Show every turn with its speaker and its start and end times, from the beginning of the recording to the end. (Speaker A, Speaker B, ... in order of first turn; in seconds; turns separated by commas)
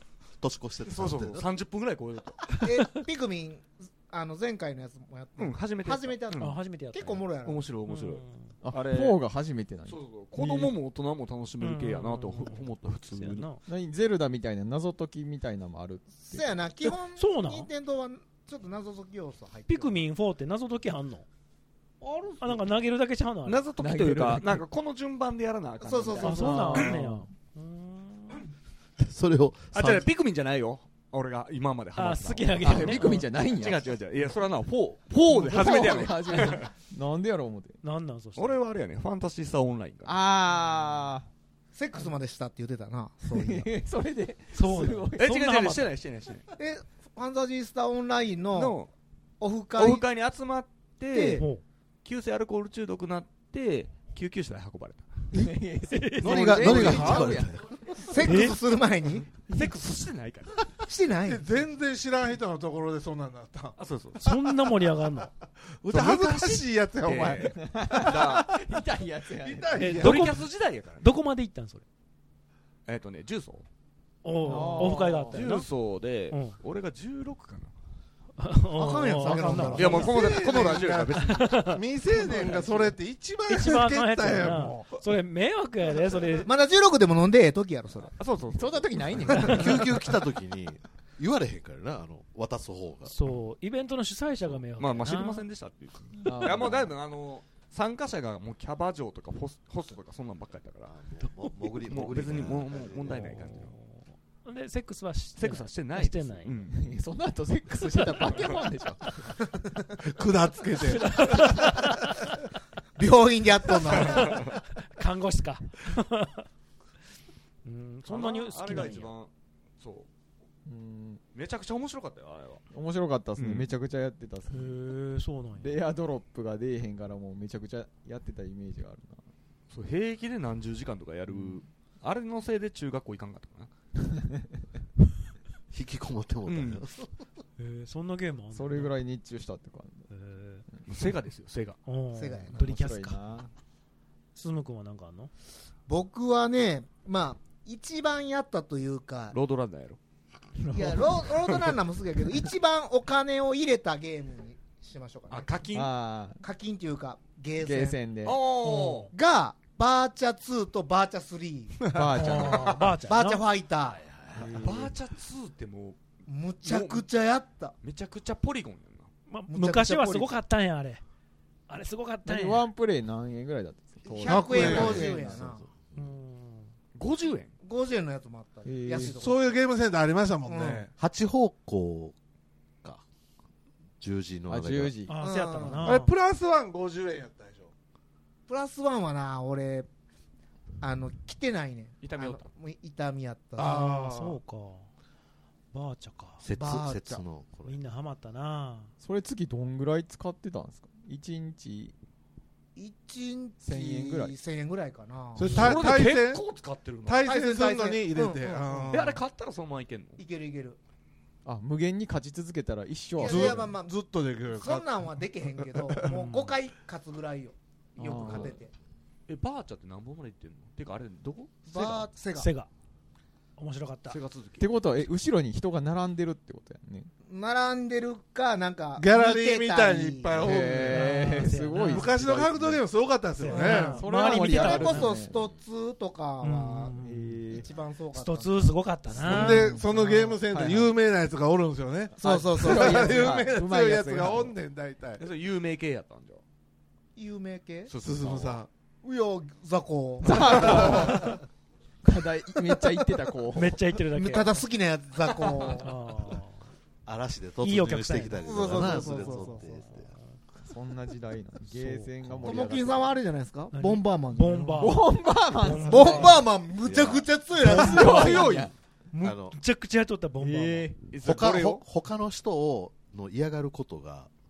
Speaker A: 0.4-1.5, Speaker B: 0.9-2.6, Speaker C: 2.6-7.7, Speaker B: 5.4-6.5, Speaker D: 6.4-7.3, Speaker B: 7.4-9.2, Speaker D: 7.8-8.6, Speaker E: 8.6-10.8, Speaker B: 9.8-13.5, Speaker D: 11.6-13.6, Speaker E: 13.7-16.6, Speaker C: 16.2-20.1, Speaker D: 16.8-17.7, Speaker D: 19.7-21.3, Speaker C: 22.0-22.6, Speaker D: 22.4-23.7, Speaker B: 23.5-27.0, Speaker E: 23.8-24.6, Speaker C: 25.8-26.6, Speaker D: 26.2-28.5, Speaker E: 26.3-27.3, Speaker A: 29.0-30.1, Speaker B: 29.7-36.7, Speaker D: 32.0-33.3, Speaker E: 32.6-33.8, Speaker E: 35.3-37.8, Speaker D: 37.8-38.6, Speaker B: 38.4-40.2, Speaker E: 40.0-41.3, Speaker C: 41.7-43.7, Speaker E: 43.2-45.3, Speaker D: 44.5-45.9, Speaker B: 45.2-46.5, Speaker C: 46.6-48.8, Speaker B: 48.5-48.9, Speaker C: 49.4-50.0, Speaker B: 49.7-51.5, Speaker C: 51.1-51.5, Speaker D: 51.4-51.6, Speaker B: 52.0-55.4, Speaker E: 55.3-57.6, Speaker D: 55.9-57.3, Speaker A: 56.2-57.6, Speaker C: 57.9-59.3, Speaker D: 58.2-58.6, Speaker B: 59.3-60.7, Speaker C: 60.9-61.5, Speaker F: 61.2-64.5, Speaker B: 63.8-64.2, Speaker D: 64.2-65.3, Speaker F: 65.8-68.7, Speaker B: 65.9-68.6, Speaker E: 67.1-70.0, Speaker F: 69.3-70.3, Speaker D: 69.8-70.5, Speaker B: 70.0-71.2, Speaker D: 71.0-71.8, Speaker B: 72.9-73.7, Speaker D: 74.2-75.7, Speaker E: 74.4-75.4, Speaker B: 74.6-77.7, Speaker D: 76.3-76.6, Speaker D: 78.4-80.6, Speaker C: 78.7-80.1, Speaker B: 79.5-81.6, Speaker F: 79.8-85.1, Speaker D: 81.1-82.3, Speaker E: 82.1-83.0, Speaker D: 83.5-86.5, Speaker C: 86.5-88.1, Speaker B: 88.2-89.8, Speaker E: 88.5-90.1, Speaker A: 89.3-93.1, Speaker D: 93.1-95.5, Speaker B: 94.8-101.0, Speaker E: 96.2-97.0, Speaker A: 100.9-103.5, Speaker D: 101.2-101.8, Speaker B: 101.9-103.7, Speaker D: 103.1-106.6, Speaker B: 105.4-106.8, Speaker E: 106.7-109.2, Speaker B: 108.2-108.5, Speaker F: 110.0-112.2, Speaker E: 110.8-111.7, Speaker D: 111.3-112.2, Speaker C: 113.0-114.4, Speaker D: 113.9-116.5, Speaker D: 117.7-119.1, Speaker B: 118.1-120.1, Speaker E: 120.7-121.2, Speaker B: 121.3-122.6, Speaker E: 122.7-124.8, Speaker B: 123.4-123.7, Speaker D: 124.5-125.8, Speaker E: 125.5-129.2, Speaker B: 129.7-133.7, Speaker E: 131.3-131.7, Speaker E: 134.0-134.6, Speaker A: 135.7-137.2, Speaker B: 136.5-136.8, Speaker D: 137.6-138.9, Speaker E: 138.5-140.1, Speaker D: 140.1-140.7, Speaker B: 140.9-141.8, Speaker D: 141.9-143.2, Speaker C: 142.1-142.7, Speaker E: 142.5-143.5, Speaker D: 144.3-145.3, Speaker C: 145.9-149.4, Speaker B: 149.3-150.0, Speaker C: 150.7-155.6, Speaker E: 150.8-151.1, Speaker B: 155.3-155.9, Speaker E: 155.7-156.4, Speaker C: 156.4-158.0, Speaker E: 157.6-158.4, Speaker B: 158.2-159.1, Speaker D: 158.6-159.1, Speaker C: 159.1-164.1, Speaker F: 161.8-162.0, Speaker E: 161.9-162.8, Speaker D: 162.2-163.4, Speaker E: 164.4-165.0, Speaker B: 164.4-166.0, Speaker C: 166.3-167.8, Speaker B: 166.6-167.1, Speaker B: 167.8-169.1, Speaker D: 169.3-171.0, Speaker C: 169.5-170.4, Speaker D: 171.7-172.7, Speaker E: 172.2-175.6, Speaker C: 174.0-175.6, Speaker F: 174.2-175.1, Speaker A: 174.6-176.1, Speaker D: 176.0-176.7, Speaker B: 176.9-177.5, Speaker C: 177.6-179.4, Speaker E: 178.7-179.2, Speaker F: 179.1-180.9, Speaker C: 180.5-180.9, Speaker A: 181.0-182.2, Speaker A: 184.0-184.9, Speaker E: 184.5-185.2, Speaker D: 185.1-186.1, Speaker C: 185.2-185.9, Speaker F: 185.8-187.7, Speaker C: 188.5-189.9, Speaker C: 190.8-193.8, Speaker B: 192.0-192.5, Speaker F: 193.6-194.4, Speaker D: 193.6-194.9, Speaker D: 195.7-196.4, Speaker A: 196.4-197.8, Speaker C: 196.5-197.2, Speaker D: 197.7-198.9, Speaker E: 199.0-201.9, Speaker C: 202.8-205.7, Speaker E: 203.6-204.4, Speaker F: 205.4-206.4, Speaker B: 205.4-207.3, Speaker F: 207.0-209.2, Speaker C: 207.2-209.2, Speaker B: 208.9-210.2, Speaker C: 210.2-210.8, Speaker E: 211.4-213.8, Speaker C: 213.2-213.9, Speaker F: 213.2-216.2, Speaker C: 214.5-218.7, Speaker D: 216.0-216.6, Speaker E: 218.0-218.6, Speaker B: 219.3-221.9, Speaker C: 221.7-222.5, Speaker D: 222.3-222.7, Speaker D: 223.6-224.2, Speaker B: 224.1-225.1, Speaker E: 224.6-227.1, Speaker C: 227.3-230.6, Speaker F: 229.0-231.1, Speaker E: 230.4-232.9, Speaker D: 230.8-232.1, Speaker F: 231.8-234.0, Speaker D: 233.4-235.1, Speaker C: 233.5-236.9, Speaker E: 233.8-235.4, Speaker A: 235.3-235.6, Speaker D: 236.4-237.5, Speaker E: 236.9-237.7, Speaker C: 237.5-238.8, Speaker D: 238.1-239.8, Speaker F: 239.1-245.2, Speaker C: 239.3-239.9, Speaker E: 239.8-240.9, Speaker E: 242.1-244.6, Speaker C: 242.2-243.1, Speaker B: 245.2-246.4, Speaker C: 247.2-247.9, Speaker B: 247.9-248.7, Speaker F: 248.0-248.7, Speaker C: 249.0-251.1, Speaker E: 250.2-251.4, Speaker F: 250.7-251.4, Speaker E: 252.0-253.8, Speaker D: 253.5-254.6, Speaker C: 254.1-255.9, Speaker D: 255.6-256.6, Speaker A: 257.1-260.1, Speaker D: 257.6-260.1, Speaker C: 258.4-259.8, Speaker E: 260.6-263.2, Speaker C: 262.4-264.9, Speaker D: 263.7-266.4, Speaker E: 264.7-266.5, Speaker C: 265.9-268.6, Speaker A: 266.8-267.3, Speaker E: 267.6-268.7, Speaker D: 267.6-270.9, Speaker A: 269.2-269.6, Speaker E: 270.4-271.1, Speaker B: 271.1-271.8, Speaker A: 271.2-274.3